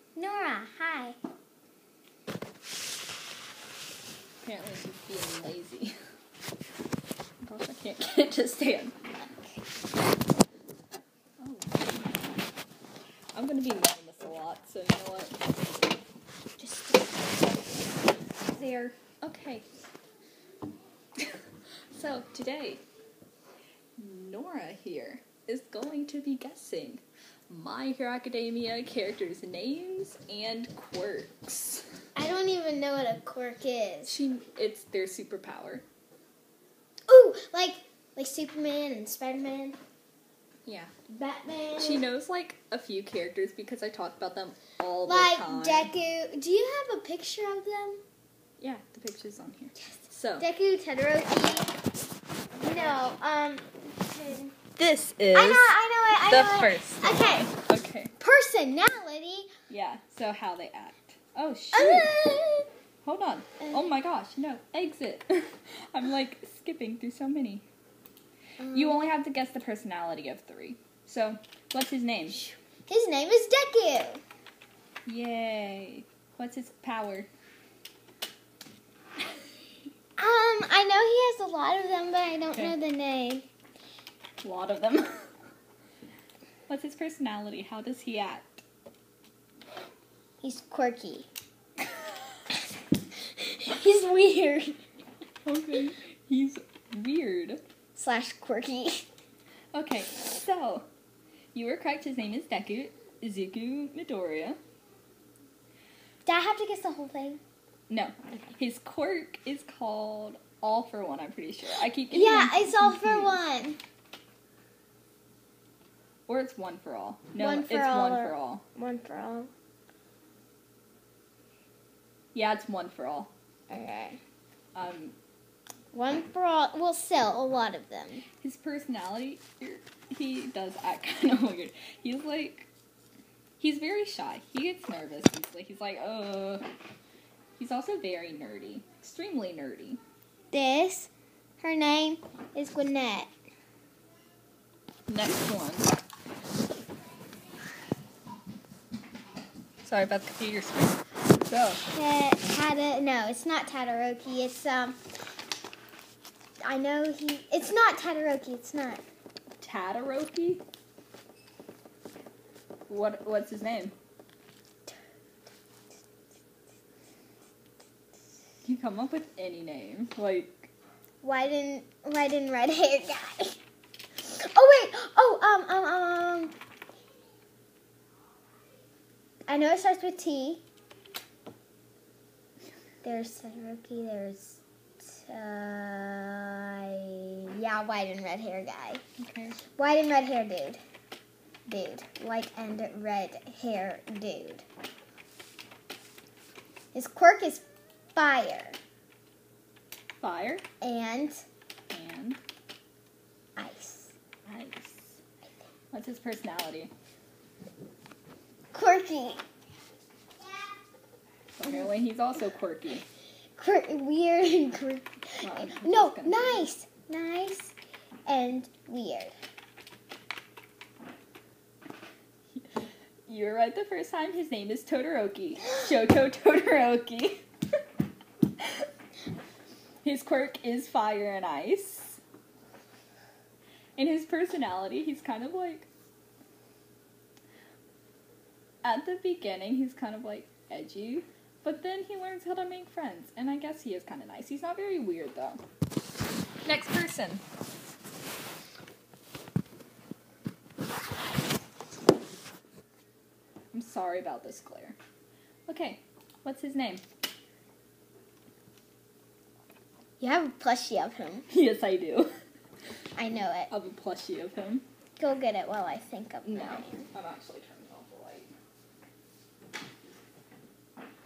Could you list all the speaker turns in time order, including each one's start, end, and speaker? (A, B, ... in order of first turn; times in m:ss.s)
0:00.2-0:01.2 A
0:04.4-0:06.0 B
0:07.4-0:09.0 B
0:09.3-0:09.6 A
0:11.4-0:12.4 B
0:13.3-0:15.4 B
0:16.6-0:17.5 A
0:18.6-0:19.6 B
0:21.9-0:22.8 B
0:24.0-0:31.8 B
0:32.2-0:34.2 A
0:34.1-0:35.8 B
0:37.1-0:39.8 A
0:40.7-0:40.9 B
0:41.1-0:42.0 A
0:41.8-0:45.9 B
0:45.0-0:48.0 A
0:48.6-0:50.5 B
0:50.4-0:51.7 A
0:52.6-0:54.5 A
0:54.8-0:58.1 B
0:55.3-0:57.5 A
0:58.2-0:59.5 A
0:59.7-1:02.1 B
1:01.7-1:02.7 A
1:03.0-1:07.6 B
1:08.6-1:09.0 A
1:08.7-1:12.5 B
1:12.9-1:14.2 A
1:15.1-1:17.3 B
1:20.2-1:23.5 A
1:24.4-1:25.3 B
1:26.7-1:28.6 B
1:30.4-1:31.3 A
1:33.4-1:34.8 A
1:35.4-1:37.6 B
1:38.0-1:39.1 A
1:39.7-1:40.9 B
1:41.5-1:44.6 B
1:46.2-1:47.4 A
1:47.9-1:53.4 B
1:52.1-1:53.8 A
1:56.3-1:58.6 B
1:57.4-1:59.5 A
2:02.3-2:03.3 B
2:03.7-2:04.2 A
2:04.8-2:05.2 B
2:05.9-2:08.2 A
2:08.4-2:12.7 B
2:13.6-2:16.7 B
2:17.6-2:20.0 B
2:20.5-2:23.3 A
2:25.1-2:25.9 B
2:29.8-2:31.8 B
2:31.9-2:35.0 A
2:36.6-2:39.0 A
2:39.6-2:40.6 B
2:42.9-2:43.9 B
2:48.6-2:50.7 B
2:51.2-2:53.6 A
2:54.2-2:56.5 A
2:59.5-3:00.6 A
3:03.0-3:09.0 A
3:09.2-3:09.6 B
3:09.8-3:10.8 A
3:11.7-3:14.6 A
3:16.9-3:17.6 A
3:18.2-3:18.8 A
3:20.2-3:20.6 B
3:20.8-3:21.4 A
3:21.9-3:22.4 B
3:23.6-3:24.1 A
3:24.4-3:25.2 B
3:25.9-3:26.9 B
3:28.7-3:29.4 A
3:31.6-3:33.0 B
3:33.6-3:37.7 A
3:35.4-3:36.7 B
3:38.3-3:39.3 A
3:43.3-3:47.4 B
3:50.0-3:52.2 B
3:54.0-3:55.9 B
3:58.8-4:05.6 B
4:06.6-4:07.4 B
4:13.7-4:15.0 B
4:15.7-4:17.0 B
4:20.2-4:21.5 A
4:21.5-4:22.3 B
4:23.2-4:23.7 A
4:23.7-4:24.8 B
4:25.2-4:27.1 A
4:26.5-4:28.5 B